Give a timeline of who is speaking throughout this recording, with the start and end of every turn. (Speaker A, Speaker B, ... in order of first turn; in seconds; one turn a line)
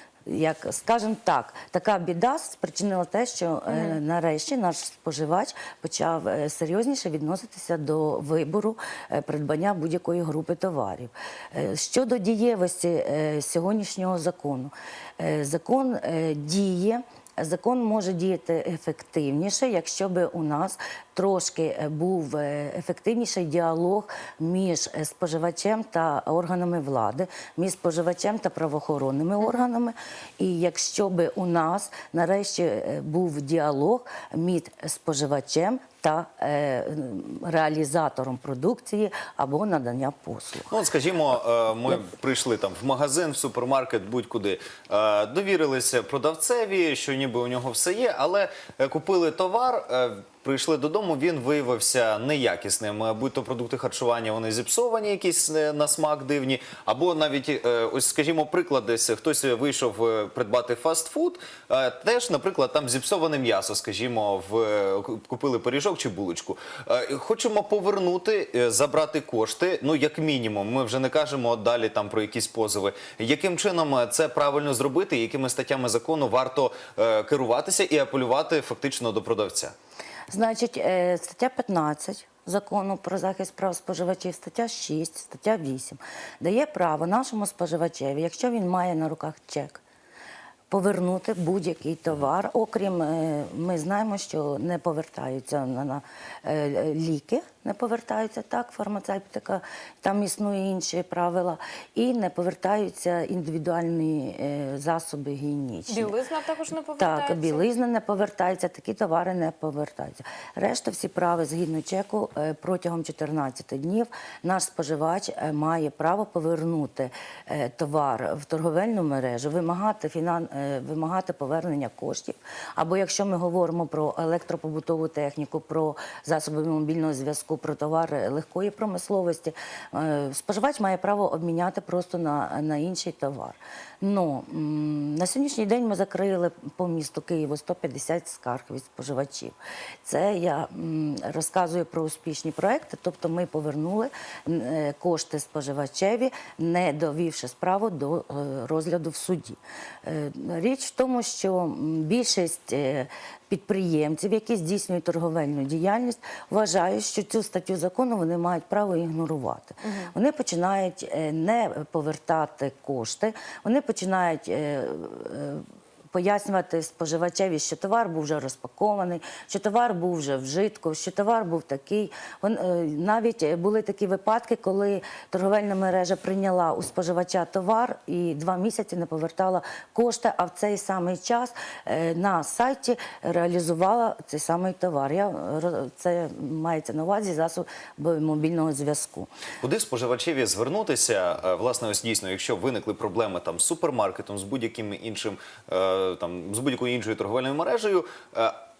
Speaker A: 0.2-40.7
Speaker B: 3.7-4.0
Speaker C: 40.7-79.7
Speaker A: 80.3-89.8
Speaker A: 90.7-106.1
Speaker B: 105.9-107.7
Speaker A: 107.0-189.3
Speaker B: 159.8-160.1
Speaker C: 189.6-198.6